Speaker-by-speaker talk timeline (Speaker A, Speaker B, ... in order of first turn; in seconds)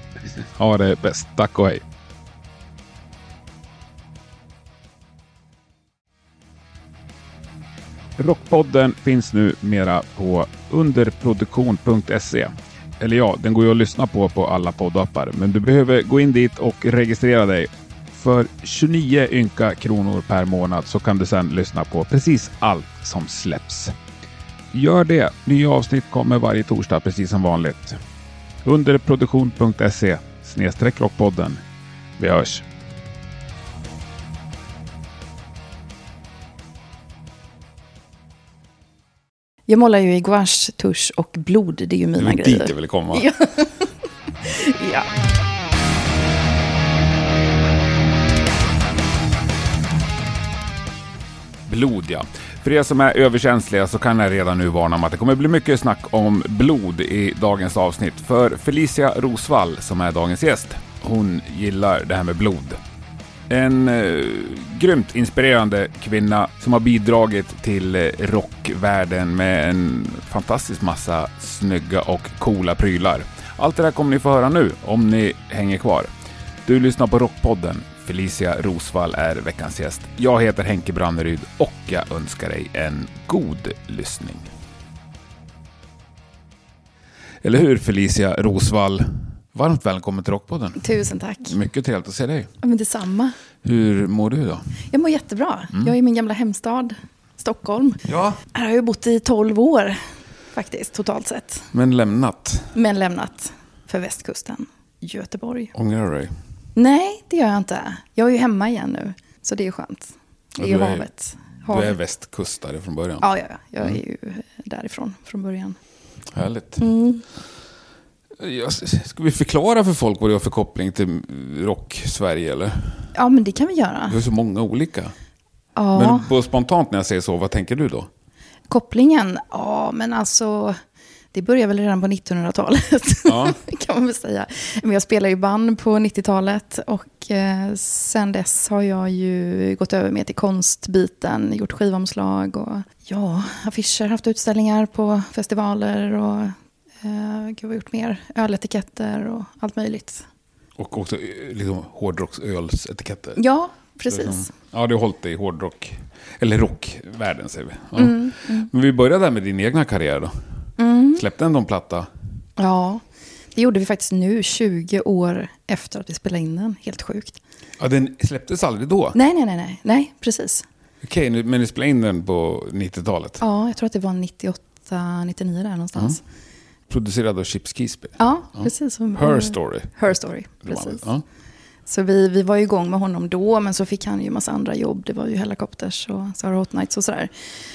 Speaker A: 0.5-1.8, 8.2-23.9, 24.7-28.0, 28.6-31.6, 32.2-32.7, 42.2-43.3, 51.7-62.8, 63.5-76.1, 76.7-84.5, 87.4-90.9, 91.4-92.5, 93.6-94.8, 98.1-98.4, 101.7-102.8, 105.8-106.3, 110.6-111.1, 111.7-113.3, 116.3-116.8, 118.4-123.1, 124.1-125.1, 126.0-128.1, 133.3-133.6, 150.8-153.4, 154.1-160.3, 161.2-162.1, 167.8-169.2, 171.0-173.4, 176.9-181.2
Speaker B: 39.7-43.9, 44.4-45.1, 90.8-91.6, 92.6-93.3, 94.9-100.0, 100.5-101.7, 102.8-105.7, 106.8-112.0, 113.2-115.8, 116.8-117.2, 123.2-124.2, 125.8-126.3, 128.7-130.8, 131.3-150.2, 153.4-154.5, 157.9-158.7, 160.8-161.2, 162.6-163.0, 163.6-167.4, 169.2-170.7, 173.4-176.2, 178.2-181.1, 181.9-187.3